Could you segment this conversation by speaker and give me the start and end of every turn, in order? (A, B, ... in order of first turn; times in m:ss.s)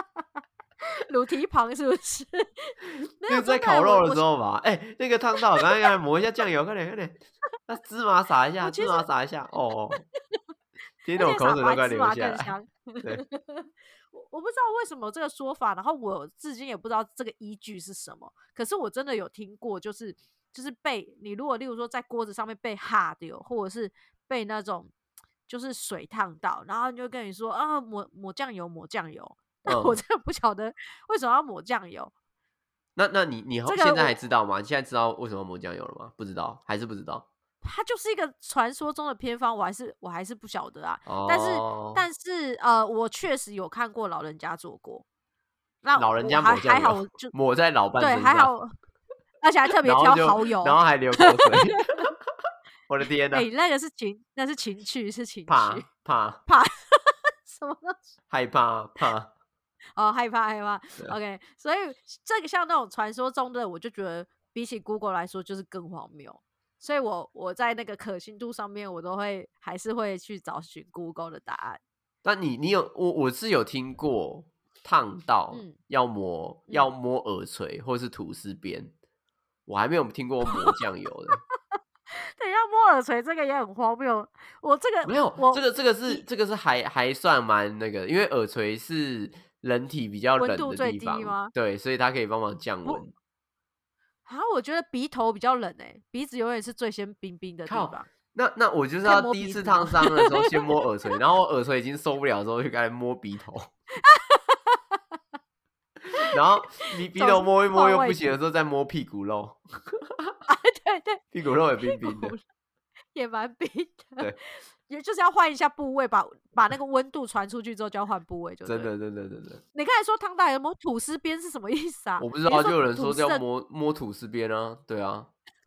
0:00.9-0:04.2 A
0:03.2-0:10.0 B
0:08.6-0:09.1 A
0:11.0-0:12.5 B
0:11.2-0:24.9 A
0:25.5-0:32.1 A
0:29.6-0:30.0 B
0:33.0-0:37.2 B
0:33.6-0:34.1 A
0:37.6-0:45.0 A
0:41.0-0:42.0 B
0:45.8-0:47.3 A
0:46.0-0:48.5 B
0:48.0-0:48.7 A
0:49.4-0:52.1 A
0:49.8-0:52.1 B
0:52.9-0:53.4 B
0:53.3-0:55.8 A
0:55.5-0:56.4 B
0:56.5-0:58.1 A
0:58.3-0:59.3 B
1:00.0-1:11.8 A
1:12.2-1:18.9 B
1:15.5-1:15.8 A
1:19.7-1:21.4 B
1:22.4-1:26.2 A
1:25.0-1:33.1 B
1:30.4-1:31.5 A
1:34.2-1:38.1 A
1:37.7-1:43.7 B
1:39.0-1:40.8 A
1:44.0-1:45.0 A
1:46.2-1:50.3 B
1:46.8-1:48.3 A
1:50.5-1:51.2 A
1:51.3-1:52.3 B
1:51.8-1:52.4 A
1:53.1-1:58.9 A
1:58.6-1:59.6 B
1:59.7-2:03.4 A
2:02.2-2:05.3 B